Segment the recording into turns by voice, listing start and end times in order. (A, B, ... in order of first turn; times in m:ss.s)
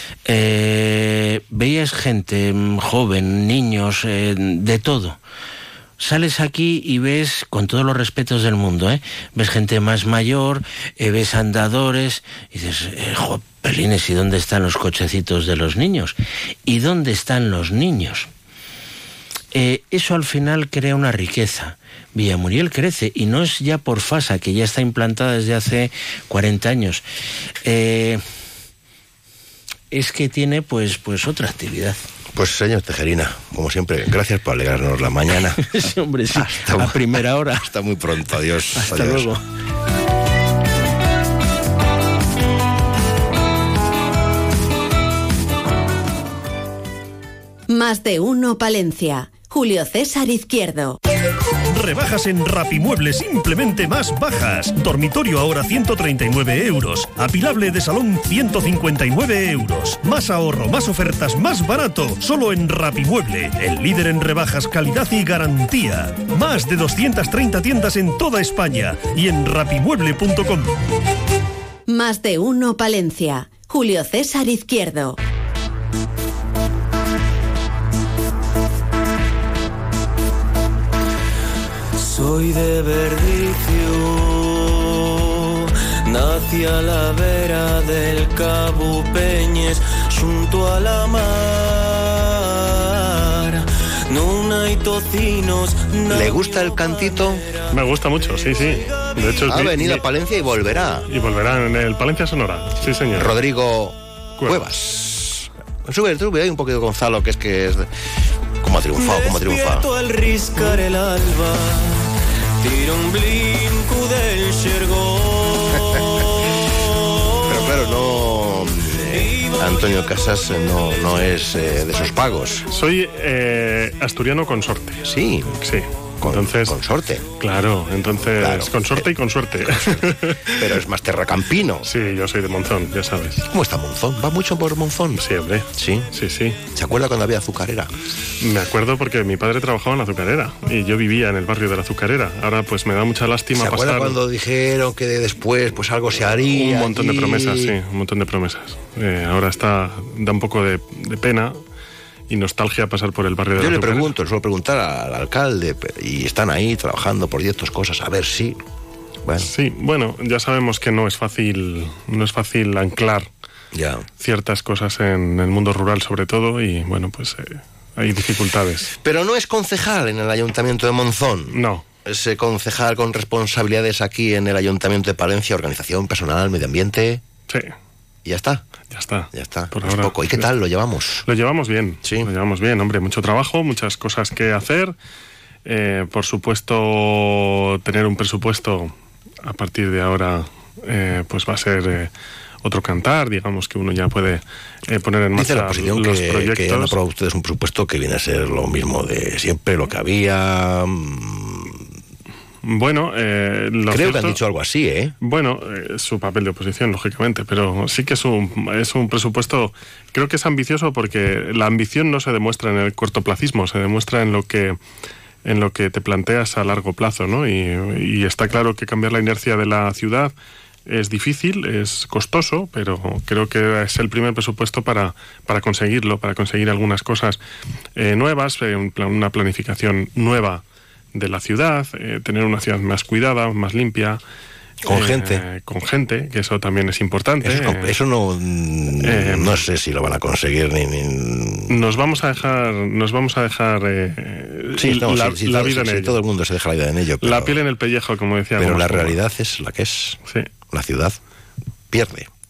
0:00.2-0:05.2 A
0:06.0-0:16.2 A
0:16.7-0:18.3 A
0:19.5-0:27.0 A
0:27.6-0:28.2 A
0:29.9-0:32.0 A
0:32.3-0:35.7 B
0:35.6-0:37.6 A
0:36.3-0:39.3 B
0:38.7-0:39.3 A
0:47.7-0:51.0 C
0:51.7-1:10.7 D
1:11.9-1:15.2 C
1:22.0-1:37.7 E
1:36.1-1:37.4 B
1:37.7-1:40.0 F
1:38.4-1:39.2 E
1:39.5-1:41.0 B
1:41.1-1:43.3 F
1:43.1-1:47.9 B
1:44.4-1:44.6 F
1:48.6-1:49.8 B
1:49.0-1:52.0 E
1:52.6-1:56.0 E
1:57.5-2:02.7 B
1:59.1-1:59.6 E
2:02.7-2:05.0 F
2:05.0-2:05.6 B
2:05.6-2:06.8 F
2:06.2-2:07.3 B
2:07.4-2:10.6 F
2:08.4-2:09.1 B
2:09.6-2:11.9 B
2:11.8-2:13.5 F
2:13.5-2:15.2 B
2:15.1-2:16.6 F
2:15.8-2:16.1 B
2:16.7-2:17.9 B
2:18.4-2:24.2 F
2:23.6-2:27.7 B
2:26.5-2:31.6 F
2:32.3-2:34.1 F
2:33.6-2:38.6 B
2:39.4-2:43.3 F
2:43.7-2:44.0 B
2:44.2-2:48.9 F
2:49.0-2:51.5 B
2:51.5-2:51.8 F
2:52.0-2:57.2 B
2:58.2-2:58.6 B
2:58.9-3:00.5 F
2:59.3-3:01.2 B
3:01.2-3:04.9 F
3:05.6-3:08.9 F
3:09.4-3:12.1 F
3:12.6-3:17.0 F
3:15.4-3:21.8 B
3:22.6-3:24.4 F
3:23.9-3:25.1 B
3:25.2-3:34.8 F
3:35.4-3:40.3 F
3:40.9-3:47.4 F
3:48.0-3:50.6 F
3:51.1-3:54.2 F
3:54.8-3:55.4 B
3:54.9-3:57.9 F
3:57.4-4:01.7 B
3:59.0-3:59.6 F
4:01.7-4:06.2 F
4:04.8-4:07.6 B
4:07.2-4:09.2 F
4:08.6-4:10.2 B
4:10.7-4:11.2 B
4:11.9-4:12.3 B